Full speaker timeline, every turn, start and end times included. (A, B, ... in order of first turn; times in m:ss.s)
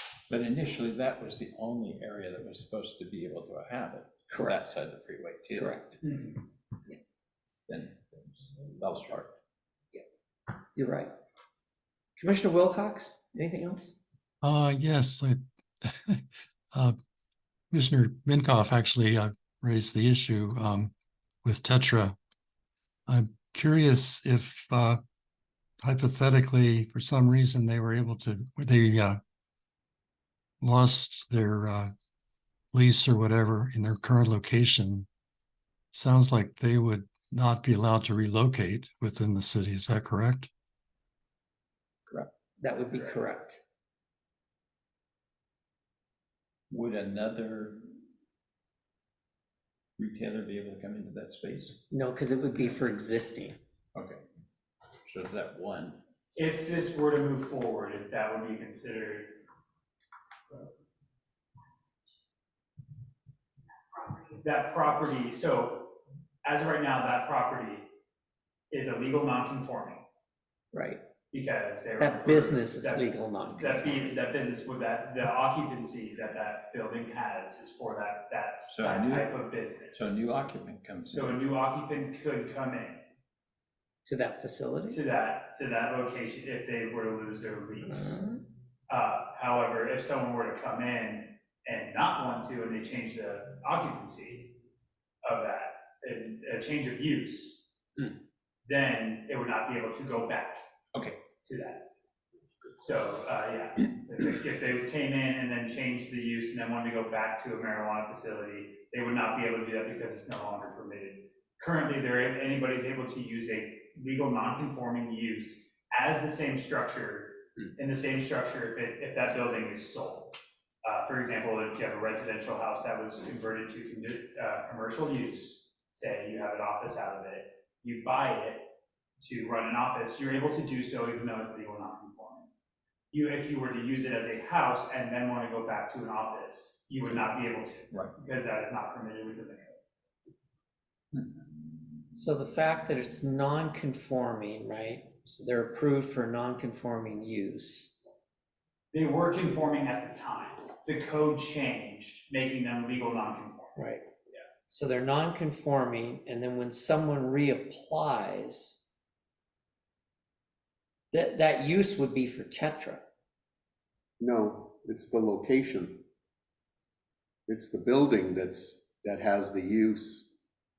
0:00.3-0:05.9 A
0:04.3-0:04.6 B
0:05.5-0:05.8 B
0:06.0-0:06.4 C
0:07.7-0:09.3 A
0:10.7-0:11.1 B
0:12.2-0:13.8 B
0:14.4-0:17.0 D
0:17.7-0:20.9 D
0:21.4-0:22.2 D
0:23.1-0:25.0 D
0:25.8-0:29.2 D
0:30.6-0:31.9 D
0:32.7-0:35.1 D
0:35.9-0:40.5 D
0:42.1-0:43.6 B
0:46.7-0:47.8 A
0:50.0-0:51.8 A
0:51.9-0:53.6 B
0:53.9-0:54.2 A
0:55.0-0:56.0 A
0:56.4-0:59.4 C
1:04.3-1:05.9 C
1:06.4-1:07.9 C
1:08.7-1:10.0 C
1:10.7-1:11.0 B
1:11.3-1:20.2 C
1:12.0-1:14.2 B
1:18.7-1:19.3 A
1:19.9-1:21.4 A
1:21.1-1:23.0 C
1:24.0-1:25.0 B
1:24.9-1:28.3 C
1:27.9-1:28.4 B
1:28.9-1:34.5 C
1:35.2-1:37.6 C
1:38.6-1:40.6 C
1:40.9-1:41.2 A
1:41.4-1:41.8 C
1:42.8-2:08.6 C
2:09.2-2:12.5 C
2:13.1-2:19.8 C
2:22.1-2:28.0 B
2:28.9-2:33.8 C
2:33.8-2:34.0 B
2:34.7-2:38.8 B
2:41.1-2:43.1 B
2:44.2-2:46.0 E
2:47.5-2:50.3 E